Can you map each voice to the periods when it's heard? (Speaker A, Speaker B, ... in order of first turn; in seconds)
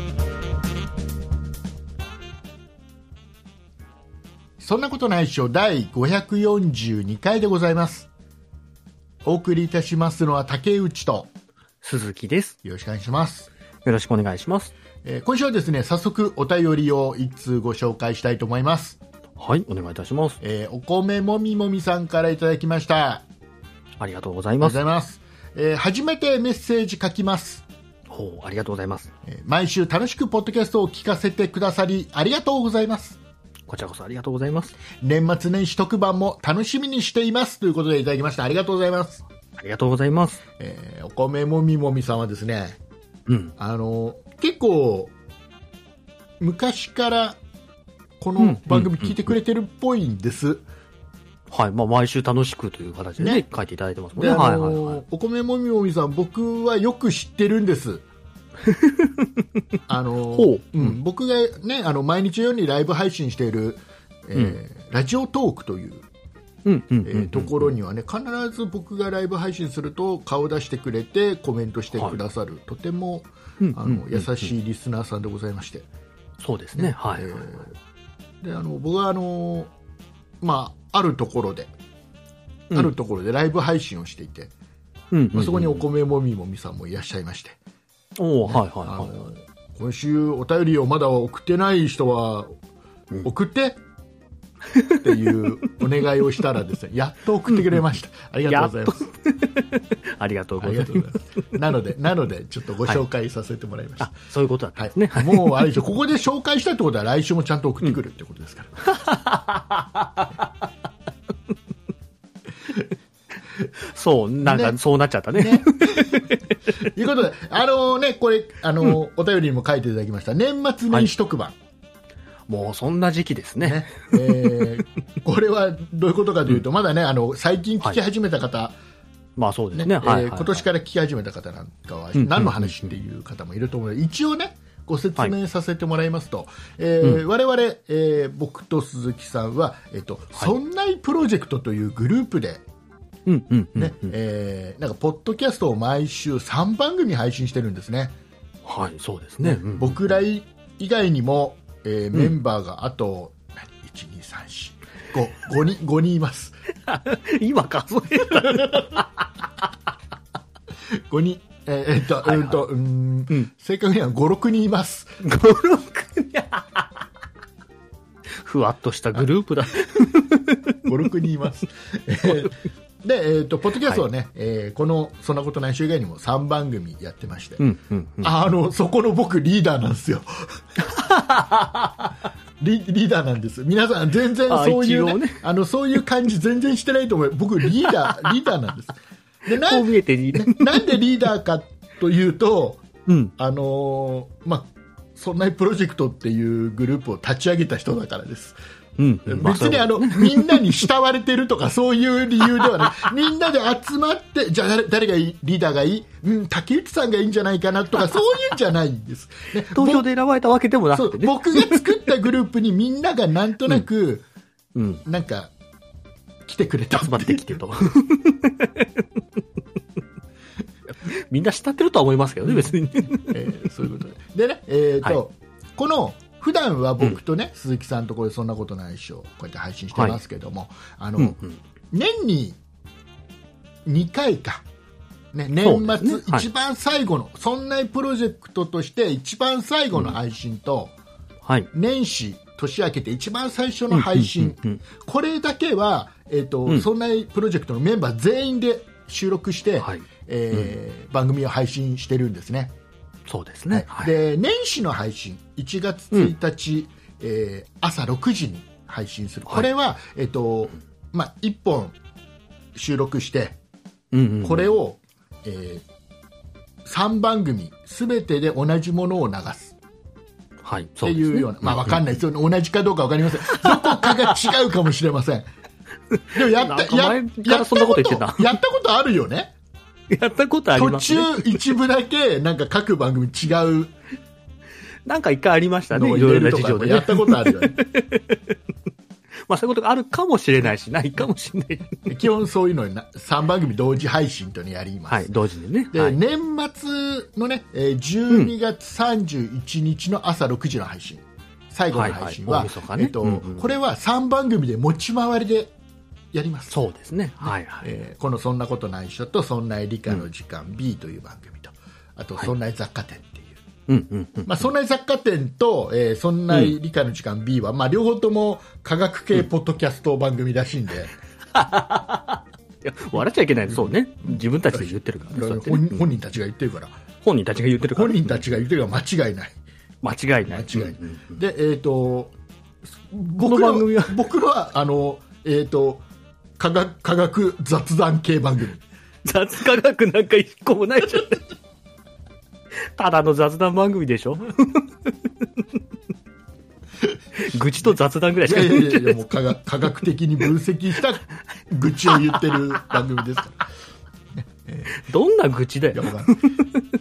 Speaker A: 4.6-8.1, 9.2-11.3, 12.6-13.5, 15.0-19.0, 20.4-23.3, 24.6-27.6, 29.3-33.2, 35.0-39.2, 40.6-42.8, 43.6-45.1, 46.4-47.4, 48.2-50.7, 53.2-53.5, 54.2-58.0, 59.9-66.1, 67.0-75.9, 76.8-77.8, 78.4-79.7, 80.4-81.7, 82.7-84.5, 85.3-87.6, 88.5-92.6, 93.2-93.8, 95.0-99.0, 100.6-104.1, 104.8-108.7, 114.4-114.8, 115.3-121.5, 123.6-128.8, 129.8-142.6, 143.8-148.2, 149.4-156.6, 161.1-165.1, 170.8-177.6, 178.2-180.3, 182.6-192.8, 193.4-198.6, 199.3-210.1, 210.9-214.2, 215.1-215.5, 216.5-217.6, 222.5-231.4, 231.9-232.6, 233.9-234.7, 235.3-240.9, 241.7-252.7, 253.7-261.9, 262.8-263.6, 264.4-265.9, 266.8-269.7, 271.0-275.4, 276.3-279.5, 280.8-283.9, 285.9-287.8, 292.1-295.4, 295.9-305.7, 306.3-306.7, 307.4-313.6, 314.4-321.1, 323.7-327.0, 327.9-329.6, 330.4-332.3, 333.1-336.1, 336.6-338.8, 348.4-353.6, 354.3-355.0, 355.9-356.4
Speaker B: 11.8-12.6, 13.8-14.7, 19.4-20.4, 24.0-24.8, 28.1-29.1, 33.7-34.8, 39.6-40.4, 43.3-43.5, 48.4-49.1, 51.5-55.0, 58.6-59.4, 60.3-61.0, 66.7-67.7, 73.6-74.5, 76.4-77.3, 85.1-85.9, 88.2-89.2, 94.7-95.0, 98.5-101.4, 104.0-105.7, 108.8-110.4, 113.8-116.5, 122.5-124.7, 129.4-130.7, 132.2-132.9, 143.3-144.2, 148.7-150.0, 156.9-159.2, 162.2-162.6, 165.2-166.9, 168.4-170.8, 177.6-178.3, 180.8-182.2, 184.5-185.4, 189.6-191.0, 193.1-193.3, 199.0-200.8, 202.6-203.1, 209.7-211.9, 214.8-215.0, 217.0-219.0, 221.0-223.5, 229.9-230.2, 231.2-231.6, 235.6-236.5, 241.4-241.7, 243.9-244.8, 249.8-250.7, 253.3-254.1, 264.1-264.8, 270.6-272.0, 273.5-274.1, 276.1-278.5, 280.1-281.6, 285.1-288.5, 289.5-292.1, 295.1-296.2, 301.9-303.8, 306.7-307.9, 313.9-314.7, 321.5-326.0, 327.2-328.4, 330.0-331.4, 333.4-334.2, 339.2-341.5, 343.0-345.1, 347.4-349.3, 352.1-352.6, 354.9-356.9